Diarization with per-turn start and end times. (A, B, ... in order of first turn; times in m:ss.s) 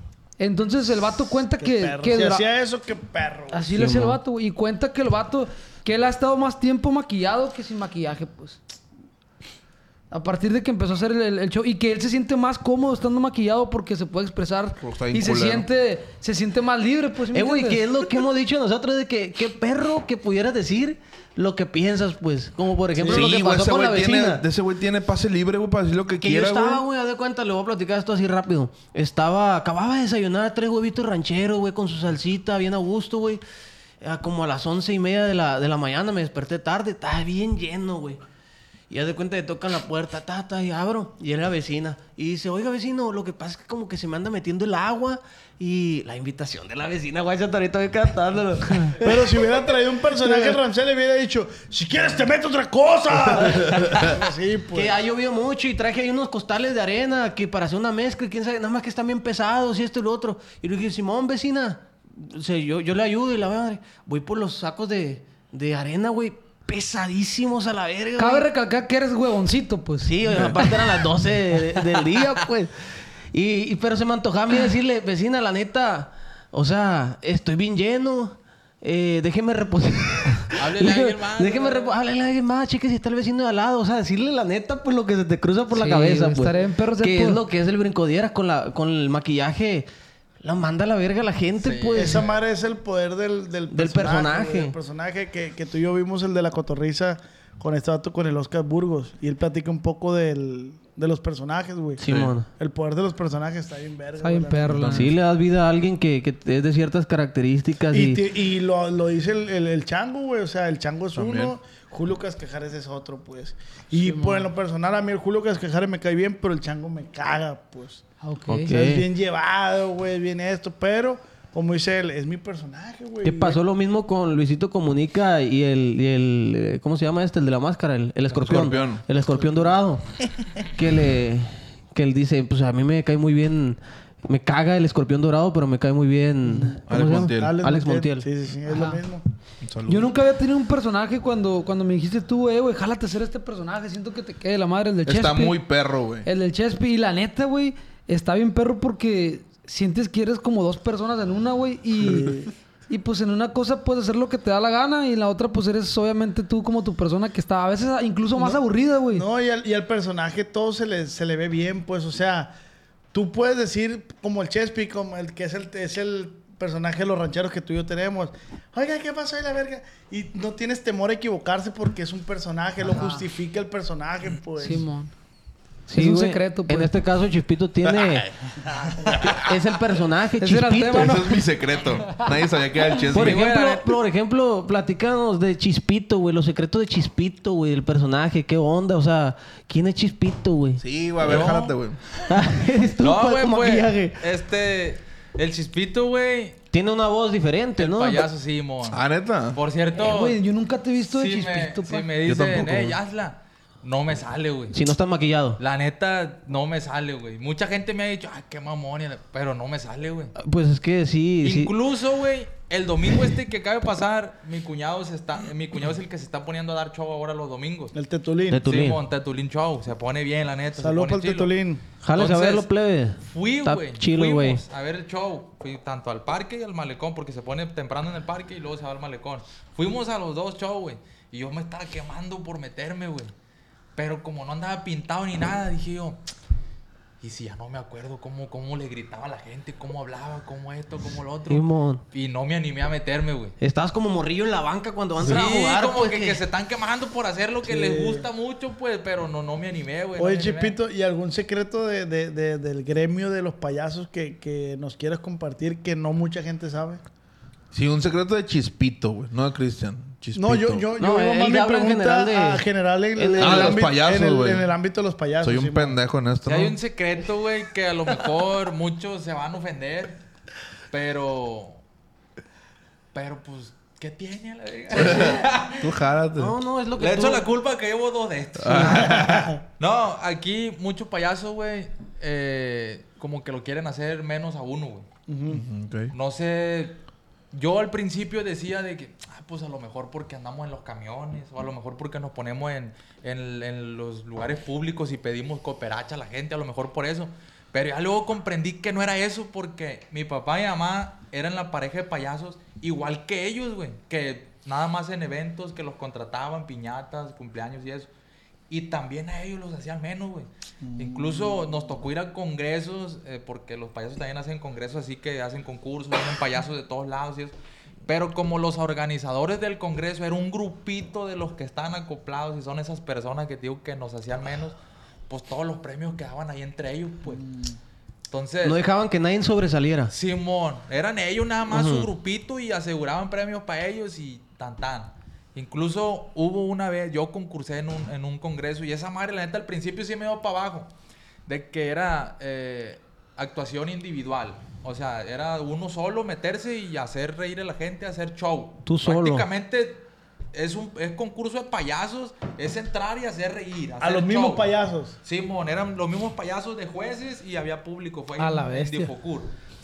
0:00.4-0:02.4 A
0:01.6-0:03.7 B
0:03.5-0:08.6 A
0:03.7-0:04.2 C
0:10.1-0:17.8 A
0:14.8-0:15.7 D
0:17.3-0:24.4 C
0:23.0-0:26.8 D
0:26.2-0:33.4 C
0:34.0-0:38.2 C
0:38.9-0:49.6 C
0:49.0-0:55.0 B
0:50.2-0:50.6 C
0:53.6-0:54.0 C
0:54.7-1:08.5 C
1:08.2-1:10.2 A
1:10.0-1:12.7 C
1:10.3-1:10.5 D
1:13.3-1:29.9 C
1:20.6-1:22.0 E
1:25.7-1:27.4 A
1:30.4-1:32.3 C
1:31.6-1:32.4 E
1:31.9-1:44.9 B
1:33.7-1:34.7 C
1:42.0-1:42.5 C
1:42.0-1:42.3 D
1:44.2-1:45.1 A
1:44.7-1:45.1 D
1:44.9-1:48.2 C
1:47.9-1:58.0 B
1:51.1-1:51.5 D
1:53.9-1:54.5 A
1:58.2-1:58.7 A
1:58.5-1:59.1 C
1:58.7-2:03.6 B
2:03.2-2:10.0 C
2:08.4-2:09.0 D
2:09.3-2:09.8 B
2:10.6-2:18.3 C
2:16.4-2:16.8 B
2:16.9-2:17.6 D
2:17.3-2:19.2 B
2:18.7-2:19.0 A
2:19.6-2:20.1 D
2:19.8-2:25.7 A
2:25.0-2:26.3 D
2:26.2-2:39.2 A
2:32.0-2:32.5 B
2:38.3-2:38.6 B
2:39.1-2:42.5 B
2:43.1-2:54.9 B
2:52.9-2:53.2 A
2:54.6-2:55.1 A
2:55.9-2:58.3 C
2:55.9-2:56.9 A
2:59.3-3:01.2 C
3:00.4-3:01.5 A
3:01.0-3:03.4 D
3:03.1-3:10.8 C
3:03.1-3:03.9 E
3:10.8-3:12.0 D
3:11.2-3:11.8 E
3:12.3-3:14.2 C
3:13.0-3:16.6 E
3:16.7-3:18.3 C
3:17.8-3:20.4 E
3:18.9-3:19.6 D
3:20.0-3:22.1 A
3:21.1-3:24.7 E
3:22.2-3:23.0 D
3:24.7-3:25.6 C
3:25.6-3:30.3 E
3:30.4-3:31.7 C
3:31.4-3:37.9 E
3:37.9-3:38.6 B
3:38.5-3:39.0 C
3:38.6-3:41.5 E
3:40.8-3:41.8 B
3:42.0-3:44.6 C
3:42.1-3:42.7 E
3:43.2-3:53.3 E
3:54.0-3:56.2 E
3:57.2-4:03.5 E
4:01.5-4:02.0 C
4:03.6-4:06.4 C
4:05.2-4:10.8 E
4:07.6-4:08.3 B
4:10.2-4:17.0 B
4:17.7-4:20.9 D
4:20.3-4:26.0 B
4:21.0-4:22.6 C
4:23.2-4:23.9 C
4:23.4-4:24.7 D
4:25.4-4:26.8 D
4:26.4-4:30.2 E
4:30.9-4:31.8 E
4:33.1-4:35.9 E
4:35.0-4:36.5 D
4:36.4-4:37.4 C
4:37.0-4:45.0 E
4:38.6-4:39.6 D
4:39.1-4:39.5 B
4:45.3-4:45.6 B
4:45.5-4:46.1 D
4:46.1-4:47.0 E
4:47.5-5:08.1 E
5:08.7-5:17.5 E
5:10.8-5:12.0 B
5:18.0-5:24.8 E
5:25.3-5:27.4 E
5:27.2-5:27.8 B
5:28.3-5:28.8 E
5:28.6-5:30.1 C
5:30.1-5:40.9 E
5:31.7-5:32.1 C
5:41.5-5:54.7 E
5:48.8-5:49.5 C
5:54.0-5:55.2 B
5:55.2-5:59.5 E
5:58.4-5:59.1 A